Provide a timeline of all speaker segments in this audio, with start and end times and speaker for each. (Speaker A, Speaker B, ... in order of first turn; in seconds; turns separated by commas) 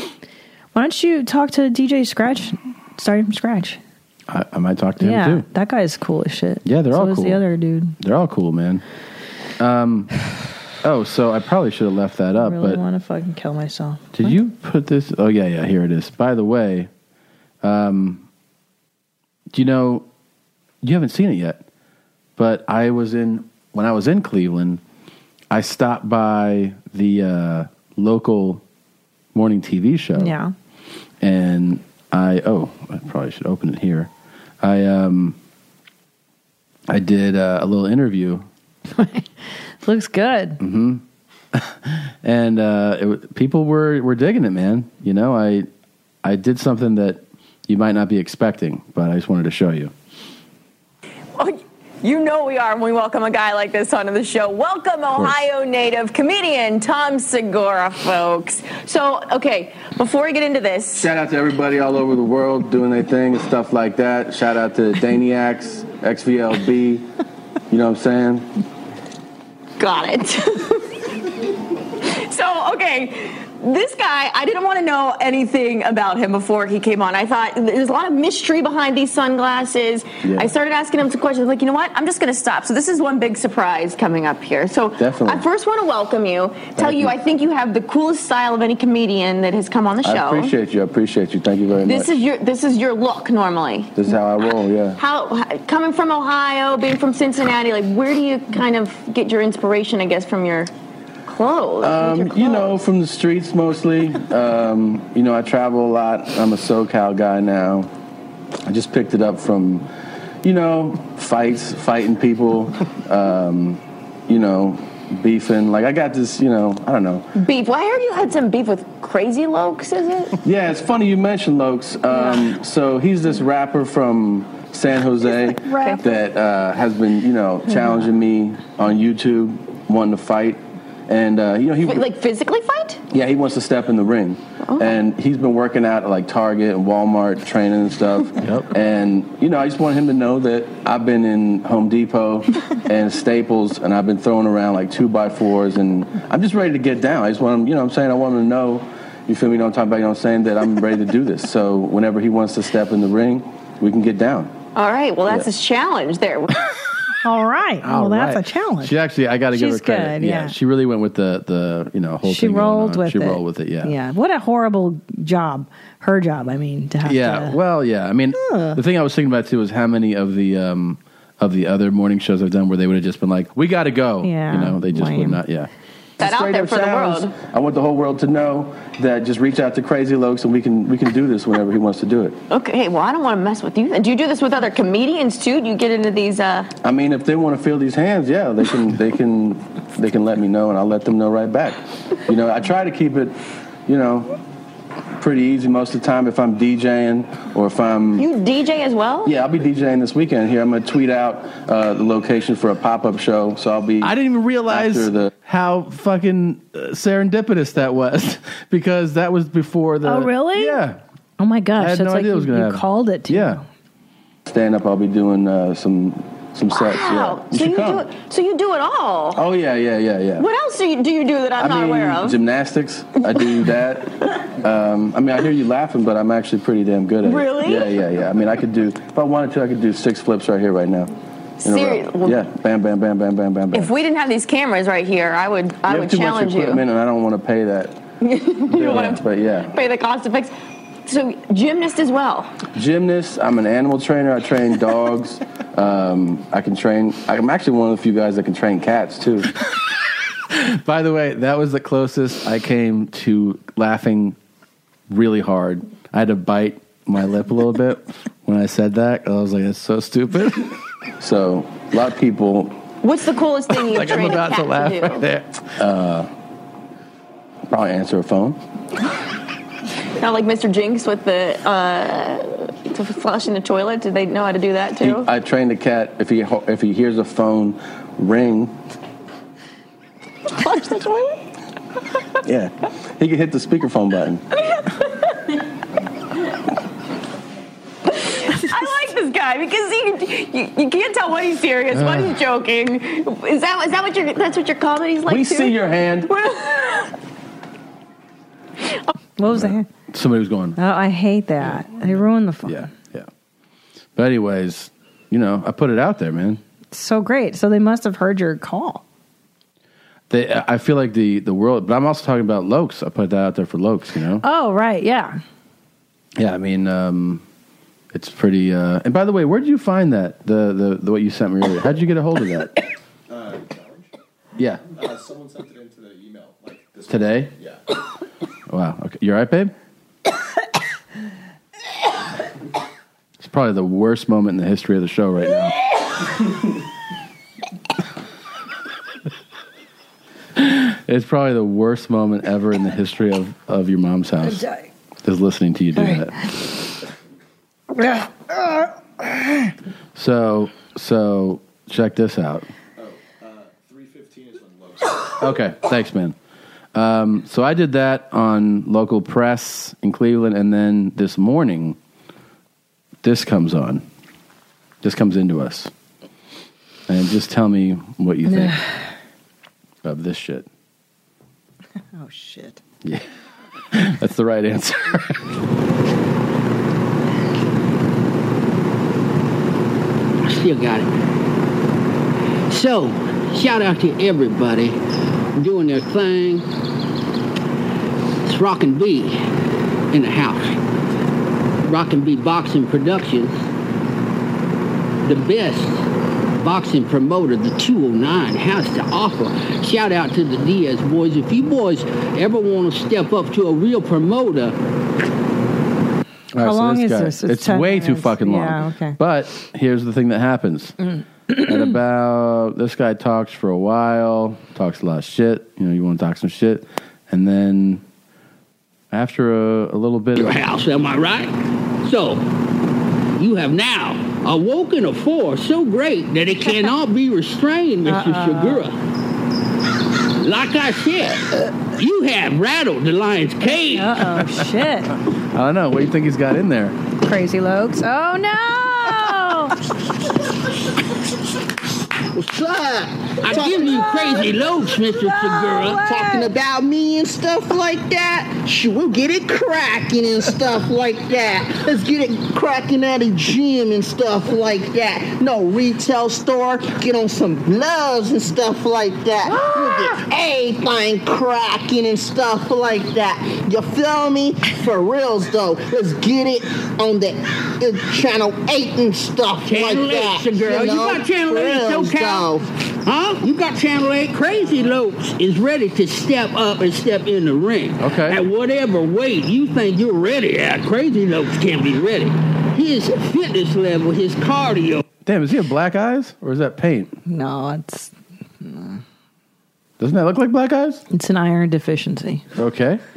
Speaker A: 0.7-3.8, Speaker B: 4.3-5.5, Speaker A: 5.0-8.0, Speaker B: 6.7-7.4, Speaker B: 8.0-8.8, Speaker B: 9.6-10.1, Speaker B: 10.8-12.8, Speaker A: 12.4-14.4, Speaker B: 14.1-16.9, Speaker B: 17.6-18.2, Speaker B: 19.5-20.1, Speaker B: 20.8-21.6, Speaker B: 22.4-24.8, Speaker B: 25.5-28.6, Speaker B: 29.3-30.4, Speaker A: 30.2-30.5, Speaker B: 31.2-34.1, Speaker B: 34.6-35.4, Speaker B: 36.9-38.5, Speaker A: 38.9-39.3, Speaker A: 39.8-40.6, Speaker B: 40.6-41.0, Speaker B: 41.5-45.7, Speaker B: 46.2-49.9, Speaker C: 51.4-61.1, Speaker B: 61.0-67.1, Speaker B: 67.7-68.5, Speaker C: 69.8-70.9, Speaker C: 72.0-90.5, Speaker B: 80.2-80.5, Speaker B: 85.0-85.5, Speaker B: 86.8-87.2, Speaker B: 90.0-92.1, Speaker C: 91.8-93.9, Speaker B: 94.0-95.0, Speaker C: 95.0-100.7, Speaker C: 101.3-102.8, Speaker B: 101.8-107.9, Speaker B: 108.7-109.9, Speaker B: 110.4-117.3, Speaker C: 117.3-120.4, Speaker B: 120.4-132.1, Speaker A: 125.6-126.0, Speaker C: 125.7-126.0, Speaker C: 131.8-133.0, Speaker B: 133.1-154.5, Speaker C: 134.7-135.0, Speaker C: 154.8-156.7, Speaker A: 157.2-159.0, Speaker B: 157.8-163.9, Speaker A: 159.5-160.6, Speaker A: 162.2-167.6, Speaker B: 167.0-182.4, Speaker A: 168.3-168.8, Speaker A: 174.2-175.4, Speaker C: 176.2-177.3, Speaker C: 182.5-186.7, Speaker B: 186.8-193.3, Speaker B: 193.9-194.3, Speaker B: 195.2-198.3, Speaker C: 198.2-199.3, Speaker B: 199.2-211.0, Speaker A: 204.8-205.0, Speaker A: 210.0-210.8, Speaker A: 211.4-213.7, Speaker B: 211.8-213.6, Speaker B: 214.5-218.1, Speaker C: 216.7-219.4, Speaker B: 219.3-220.5, Speaker C: 220.4-222.4, Speaker B: 221.6-231.1, Speaker C: 223.3-223.7, Speaker C: 227.2-227.9, Speaker C: 231.6-232.4, Speaker B: 231.6-233.9, Speaker C: 233.7-236.8, Speaker B: 235.9-238.0, Speaker C: 238.2-240.5, Speaker B: 238.7-239.7, Speaker C: 241.1-242.5, Speaker B: 242.8-249.5, Speaker B: 250.5-254.4, Speaker B: 255.1-262.8, Speaker C: 263.0-265.3, Speaker B: 263.7-266.3, Speaker B: 267.7-268.6, Speaker C: 270.2-275.3, Speaker B: 275.0-278.7, Speaker C: 280.5-281.4, Speaker B: 282.4-284.4, Speaker C: 288.2-297.1, Speaker B: 291.9-292.4, Speaker B: 295.3-296.3, Speaker A: 299.4-299.9, Speaker B: 299.5-300.8, Speaker A: 300.8-302.9, Speaker B: 301.6-301.9, Speaker B: 302.7-303.3, Speaker B: 304.2-306.6, Speaker A: 306.9-309.0, Speaker B: 310.3-314.4, Speaker A: 314.4-315.4, Speaker B: 316.4-317.4, Speaker B: 318.1-322.8, Speaker D: 323.3-324.1, Speaker B: 324.6-324.8, Speaker D: 324.9-327.8, Speaker B: 327.1-327.5, Speaker B: 328.7-329.7, Speaker B: 333.4-335.7, Speaker B: 340.6-344.6, Speaker A: 344.4-344.8, Speaker B: 345.2-346.3, Speaker A: 346.0-346.3, Speaker A: 348.0-348.9, Speaker B: 350.2-352.7, Speaker D: 353.0-355.3, Speaker B: 355.4-356.4, Speaker B: 356.9-362.0, Speaker B: 363.2-364.0, Speaker B: 365.0-365.9, Speaker B: 367.1-368.8, Speaker A: 368.5-369.0, Speaker B: 370.0-370.7, Speaker A: 372.2-372.8, Speaker B: 373.9-375.5, Speaker E: 380.4-381.1, Speaker E: 382.7-385.0, Speaker E: 385.6-386.7, Speaker E: 388.4-389.4, Speaker E: 390.1-390.8, Speaker E: 391.8-393.6, Speaker E: 395.2-396.0, Speaker E: 396.6-404.8, Speaker B: 406.5-411.0, Speaker A: 406.6-409.2, Speaker A: 411.5-411.9, Speaker B: 411.6-418.0, Speaker B: 419.1-420.6, Speaker E: 420.4-421.5, Speaker E: 422.0-422.4, Speaker E: 423.4-429.0, Speaker A: 428.1-428.8, Speaker E: 430.4-431.4, Speaker E: 432.0-434.1, Speaker A: 433.8-435.1, Speaker B: 435.5-437.0, Speaker A: 437.2-439.8, Speaker F: 442.4-444.4, Speaker E: 443.4-446.0, Speaker A: 445.1-446.5, Speaker F: 446.0-472.7, Speaker A: 459.4-460.2, Speaker E: 469.7-472.5, Speaker E: 473.1-485.0, Speaker B: 478.0-478.4, Speaker B: 485.3-487.2, Speaker A: 487.3-489.0, Speaker B: 490.0-491.0, Speaker A: 491.1-492.4, Speaker B: 492.6-493.0